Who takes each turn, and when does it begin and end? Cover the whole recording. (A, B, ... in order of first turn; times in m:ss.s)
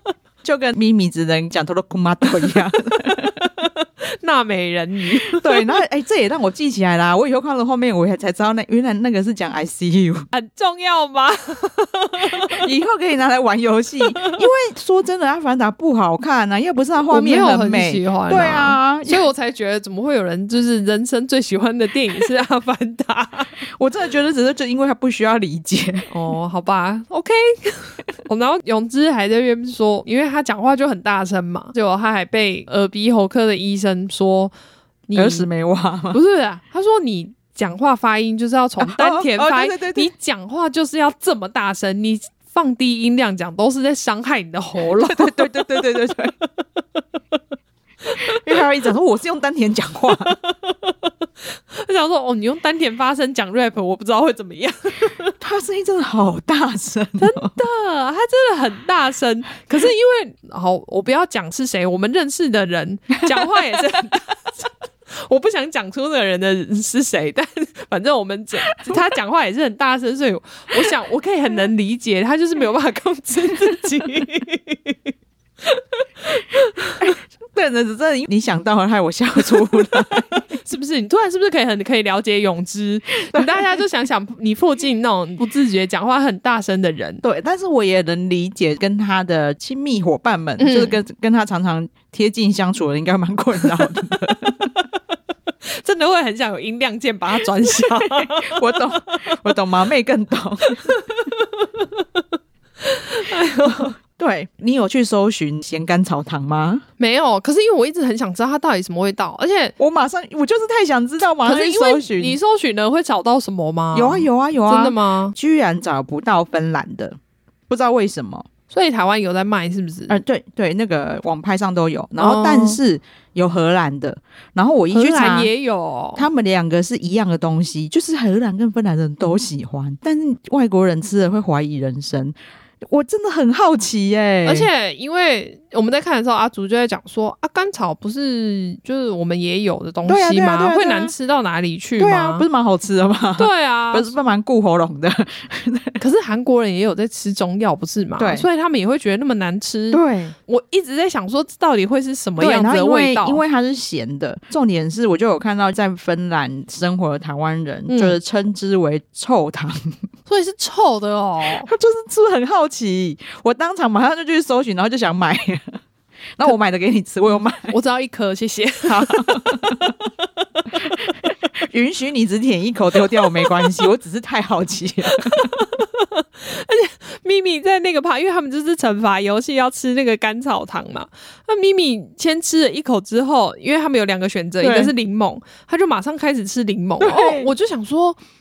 0:00.4-0:03.3 A
0:03.0-0:05.7 B
0:05.3-0:10.3 A
0:10.3-0:12.6 B
0:12.3-0:19.2 A
0:14.1-0:14.4 B
0:17.1-0:23.5 B
0:23.8-0:26.1 A
0:26.1-0:34.5 B
0:35.1-0:35.5 B
0:35.2-0:36.2 A
0:36.1-0:46.0 B
0:38.8-0:40.1 A
0:45.0-0:46.3 A
0:48.1-0:48.4 B
0:48.2-0:50.4 A
0:50.3-0:51.1 B
0:51.7-0:55.3 B
0:55.4-0:57.5 A
0:57.2-1:04.7 B
1:05.3-1:15.0 B
1:15.6-1:17.0 B
1:17.0-1:20.3 A
1:19.7-1:27.2 B
1:23.3-1:23.7 A
1:27.2-1:34.7 A
1:30.6-1:31.0 B
1:35.8-1:39.4 B
1:38.1-1:41.0 A
1:40.7-1:42.2 B
1:42.8-1:43.9 B
1:43.7-1:46.8 A
1:47.0-1:49.8 B
1:49.8-1:52.4 A
1:51.4-1:55.4 B
1:53.9-1:57.2 A
1:57.7-1:58.5 A
1:58.7-2:00.2 B
2:00.1-2:05.5 A
2:02.2-2:02.8 B
2:04.9-2:06.3 B
2:06.2-2:12.4 A
2:12.9-2:14.7 A
2:14.4-2:22.4 B
2:20.1-2:21.1 A
2:22.0-2:26.0 A
2:23.4-2:24.1 B
2:26.0-2:33.4 B
2:28.2-2:28.5 A
2:29.9-2:30.4 A
2:32.4-2:40.0 A
2:37.9-2:38.2 B
2:40.3-2:41.7 B
2:41.6-2:45.8 A
2:46.4-2:47.7 A
2:47.7-2:49.7 B
2:48.8-2:49.9 A
2:51.6-2:55.5 A
2:55.1-3:08.2 B
3:04.6-3:04.9 A
3:07.0-3:07.5 A